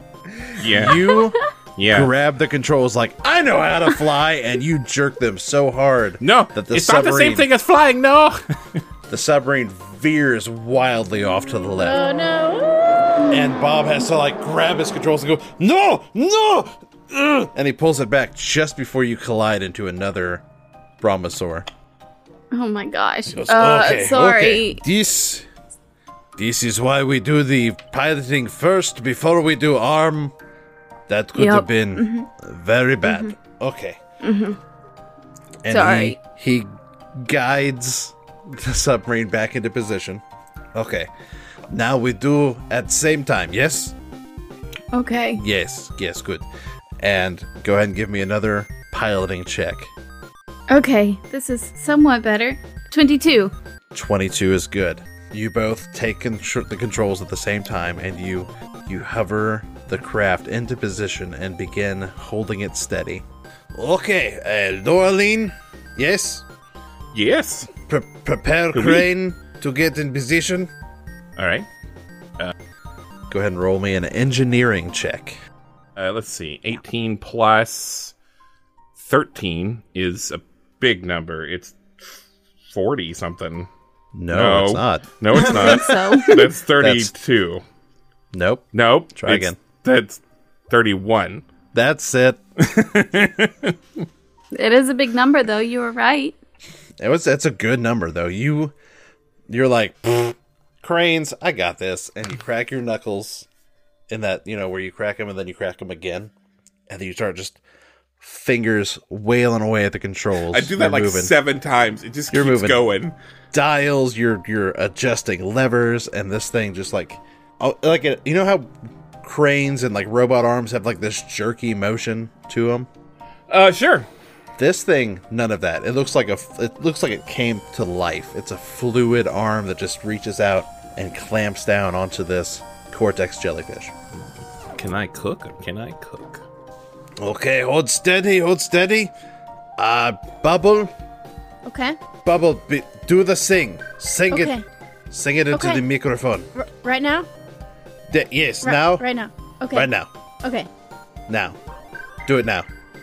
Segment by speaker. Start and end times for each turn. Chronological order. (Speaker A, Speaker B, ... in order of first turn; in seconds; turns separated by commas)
Speaker A: 0.3-7.5, Speaker B: 0.6-1.0, Speaker C: 1.1-1.5, Speaker B: 1.8-2.1, Speaker B: 6.2-8.8, Speaker A: 9.1-12.0, Speaker D: 11.8-13.3, Speaker A: 13.3-20.4, Speaker A: 21.0-21.7, Speaker C: 22.5-24.8, Speaker A: 23.3-25.5, Speaker A: 26.4-30.4, Speaker A: 31.1-34.0, Speaker C: 31.4-32.3, Speaker C: 33.0-33.3, Speaker C: 34.2-34.6, Speaker A: 35.6-40.2, Speaker C: 35.7-36.2, Speaker A: 40.7-41.1, Speaker A: 41.7-44.0, Speaker C: 44.9-45.4, Speaker A: 45.4-46.5, Speaker A: 47.0-49.9, Speaker C: 50.7-53.5, Speaker A: 53.9-66.5, Speaker B: 67.1-67.7, Speaker A: 67.9-70.7, Speaker B: 68.7-69.1, Speaker B: 71.4-71.7, Speaker A: 73.3-75.4, Speaker B: 76.0-78.1, Speaker B: 79.0-81.8, Speaker B: 82.7-83.7, Speaker A: 84.1-86.1, Speaker B: 84.3-87.6, Speaker C: 85.3-86.5, Speaker A: 86.8-87.1, Speaker A: 88.3-89.6, Speaker B: 88.7-91.4, Speaker A: 91.7-92.4, Speaker B: 92.6-93.8, Speaker C: 94.5-96.4, Speaker A: 97.0-98.7, Speaker A: 99.5-103.5, Speaker A: 104.1-106.3, Speaker A: 106.9-107.6, Speaker A: 108.2-111.3, Speaker B: 110.5-113.2, Speaker A: 112.3-112.8, Speaker A: 113.5-122.9, Speaker B: 123.5-124.1, Speaker A: 124.6-133.9, Speaker B: 134.8-136.4, Speaker A: 137.2-139.1, Speaker A: 139.8-140.9, Speaker D: 141.7-142.0, Speaker A: 142.2-144.5, Speaker D: 144.3-144.6, Speaker A: 145.1-146.5, Speaker D: 145.5-145.8, Speaker D: 146.6-147.3, Speaker A: 148.1-149.1, Speaker D: 148.6-149.9, Speaker A: 149.7-150.1, Speaker D: 150.4-150.7, Speaker A: 151.3-151.6, Speaker A: 152.3-152.7